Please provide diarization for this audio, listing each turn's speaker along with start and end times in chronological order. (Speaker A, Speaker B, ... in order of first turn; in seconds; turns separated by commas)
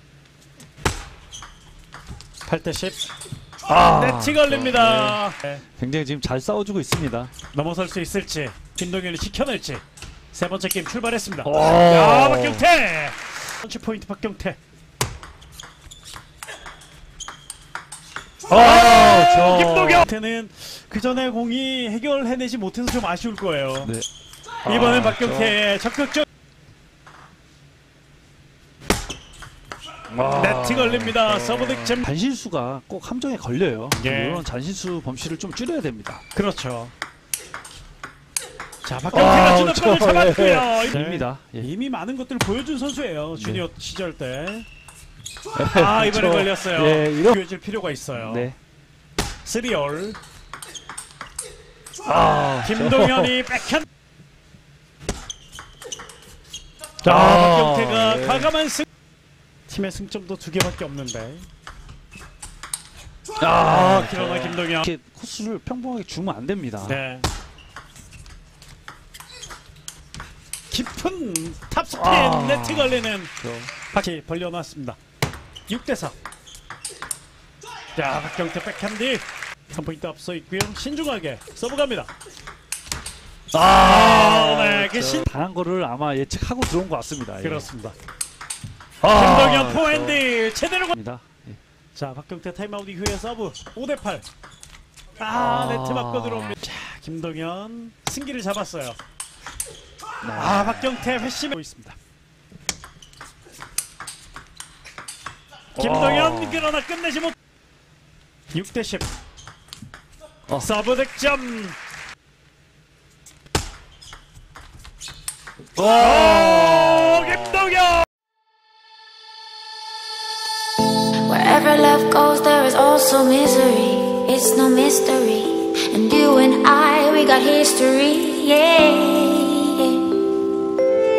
Speaker A: 2.5-3.1, Speaker B: 3.7-5.2, Speaker A: 3.8-5.6, Speaker B: 5.8-7.3, Speaker A: 7.5-14.6, Speaker B: 11.4-12.7, Speaker B: 18.5-20.1, Speaker A: 18.5-23.9, Speaker B: 24.6-25.6, Speaker A: 24.7-26.2, Speaker B: 30.1-36.2, Speaker A: 30.3-32.1, Speaker A: 33.9-34.5, Speaker A: 36.3-36.9, Speaker A: 38.8-44.7, Speaker B: 39.1-41.7, Speaker B: 43.4-43.6, Speaker B: 45.5-47.4, Speaker A: 45.7-48.5, Speaker B: 48.2-48.6, Speaker A: 49.4-50.2, Speaker B: 52.0-53.4, Speaker A: 52.6-53.9, Speaker A: 57.0-58.9, Speaker B: 57.0-58.5, Speaker A: 59.7-61.5, Speaker B: 63.4-67.0, Speaker A: 63.6-64.9, Speaker A: 66.8-67.3, Speaker A: 70.7-75.0, Speaker B: 71.9-73.7, Speaker A: 75.7-76.2, Speaker A: 78.0-82.1, Speaker B: 83.5-87.7, Speaker A: 83.6-85.3, Speaker A: 87.4-88.0, Speaker B: 89.0-90.2, Speaker A: 89.1-91.0, Speaker B: 90.9-91.6, Speaker A: 92.0-94.2, Speaker A: 95.2-99.0, Speaker B: 95.3-96.6, Speaker B: 100.2-100.9, Speaker A: 100.3-102.0, Speaker A: 105.7-107.3, Speaker B: 105.8-106.7, Speaker A: 108.5-109.1, Speaker A: 110.6-111.8, Speaker B: 115.8-117.6, Speaker A: 116.0-118.0, Speaker C: 121.3-130.1